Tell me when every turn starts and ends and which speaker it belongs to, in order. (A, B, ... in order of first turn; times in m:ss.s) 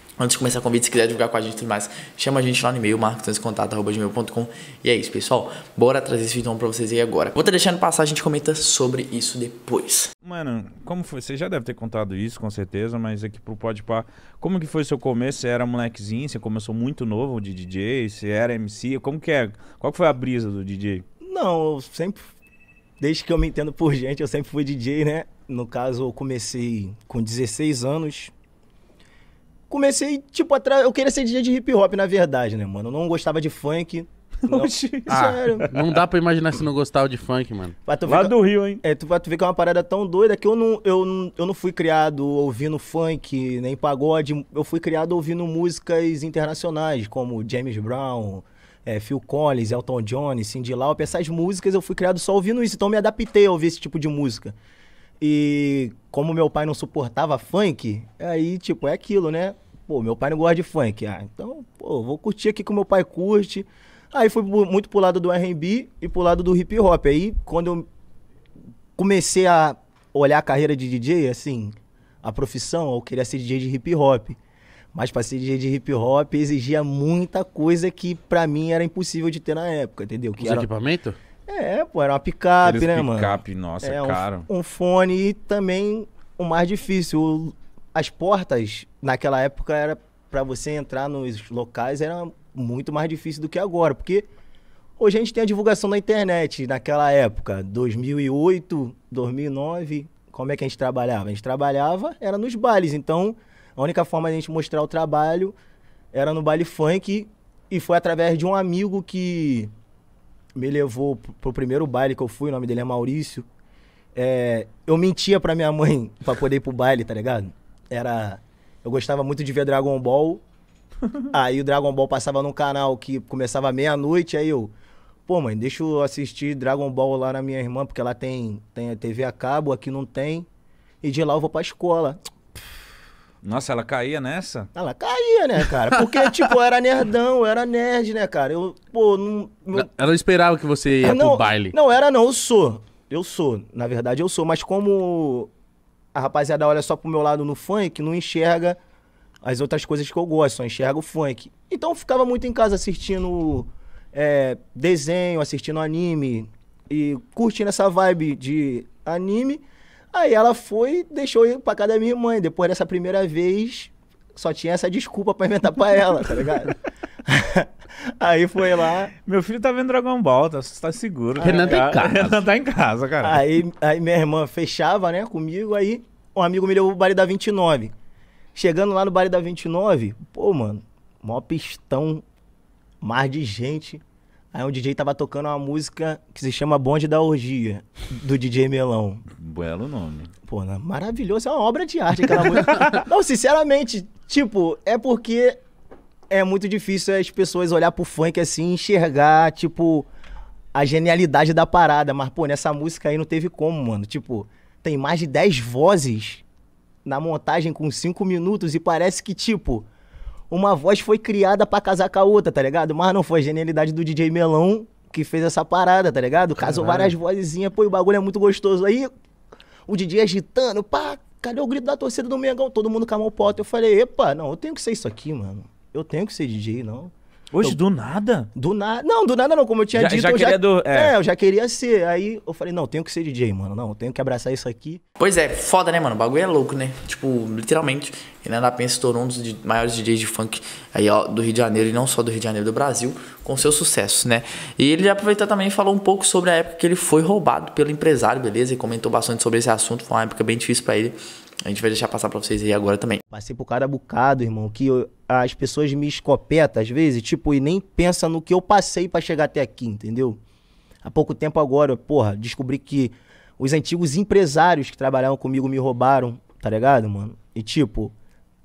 0:00.2-0:10.1 A
0:10.2-0:21.0 B
0:21.2-0:22.3 C
0:23.0-0:28.3 C
0:29.7-0:35.7 C
0:34.5-0:35.7 B
0:35.1-0:37.8 D
0:37.9-0:54.5 C
0:38.1-0:38.8 B
0:55.2-1:07.9 C
1:09.0-1:14.4 C
1:14.9-1:20.7 C
1:20.4-1:21.2 D
1:21.5-1:34.3 C
1:22.6-1:24.5 B
1:35.0-1:45.6 C
1:46.1-1:49.7 C
1:50.6-1:53.5 C
1:54.2-2:00.4 C
2:01.3-2:04.7 C
2:05.3-2:10.5 C
2:11.0-2:12.2 C
2:13.4-2:14.7 B
2:14.7-2:19.9 C
2:19.8-2:21.8 D
2:21.0-2:25.5 C
2:26.1-2:28.8 C
2:29.4-2:46.8 C
2:47.3-2:47.7 C
2:48.2-2:49.1 C
2:49.2-2:53.4 B
2:51.4-2:52.2 C
2:51.4-2:52.3 D
2:53.2-2:57.9 C
2:58.6-3:02.2 C
3:03.0-3:04.0 C
3:04.5-3:09.2 C
3:09.4-3:10.3 B
3:10.5-3:15.6 C
3:16.3-3:20.1 C
3:20.7-3:26.4 C
3:27.0-3:29.9 C
3:30.5-3:39.1 C
3:36.7-3:37.0 D
3:39.9-3:47.8 C
3:47.5-3:48.5 B
3:48.6-3:55.0 C
3:49.9-3:51.2 B
3:55.2-4:13.2 A
4:13.3-4:20.4 C
4:21.0-4:28.1 C